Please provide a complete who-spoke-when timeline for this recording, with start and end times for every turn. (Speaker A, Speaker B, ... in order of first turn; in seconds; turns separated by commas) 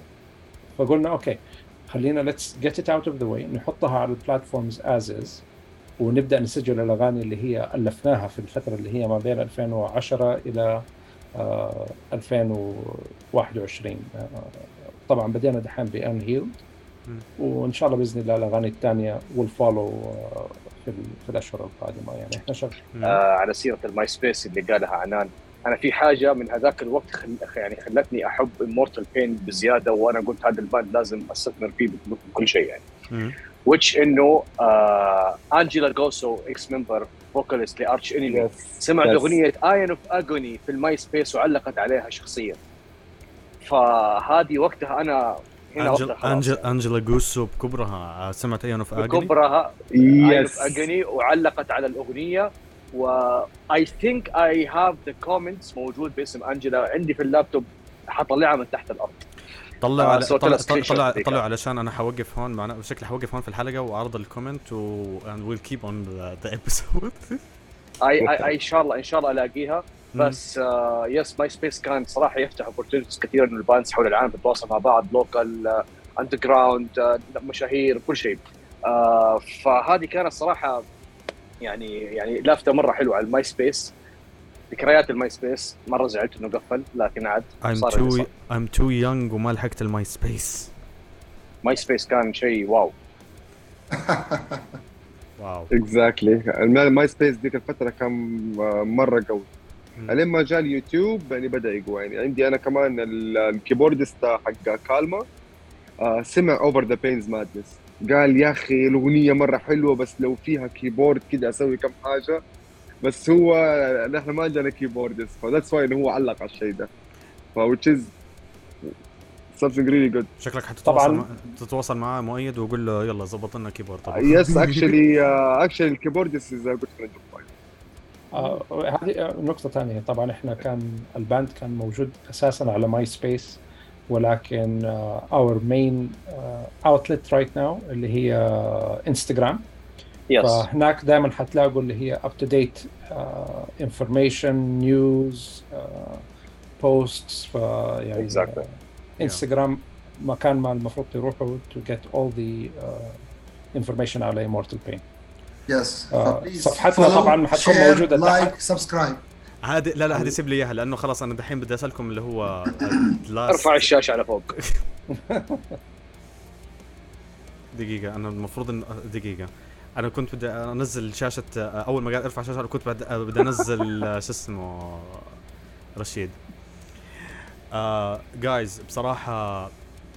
Speaker A: 0.8-5.4, Speaker A: 6.0-10.8, Speaker A: 11.3-16.6, Speaker A: 17.4-22.8, Speaker B: 22.9-23.2, Speaker C: 23.0-32.8, Speaker C: 33.6-42.6, Speaker D: 38.3-39.4, Speaker C: 43.6-46.6, Speaker B: 45.8-49.3, Speaker C: 49.0-59.2, Speaker D: 49.9-50.8, Speaker B: 59.8-67.4, Speaker C: 60.0-61.4, Speaker C: 68.0-80.8, Speaker C: 81.6-83.9, Speaker C: 84.7-88.3, Speaker B: 87.6-90.7, Speaker C: 91.6-92.9, Speaker E: 93.9-94.8, Speaker B: 95.4-95.7, Speaker D: 95.7-99.5, Speaker D: 100.1-105.2, Speaker D: 106.0-112.4, Speaker D: 113.0-116.9, Speaker D: 117.5-118.1, Speaker D: 119.5-120.3, Speaker B: 120.4-124.9, Speaker A: 120.8-121.2, Speaker D: 124.1-127.5, Speaker A: 128.3-139.6, Speaker C: 140.3-140.7, Speaker A: 140.4-146.2, Speaker A: 146.8-148.6, Speaker C: 148.2-148.6, Speaker A: 149.2-153.2, Speaker A: 153.7-155.0, Speaker E: 155.7-159.2, Speaker A: 156.1-158.5, Speaker B: 159.6-163.9, Speaker C: 163.5-164.5, Speaker B: 164.5-164.8, Speaker A: 165.1-165.7, Speaker B: 167.7-175.4, Speaker B: 176.0-176.4, Speaker B: 177.7-179.7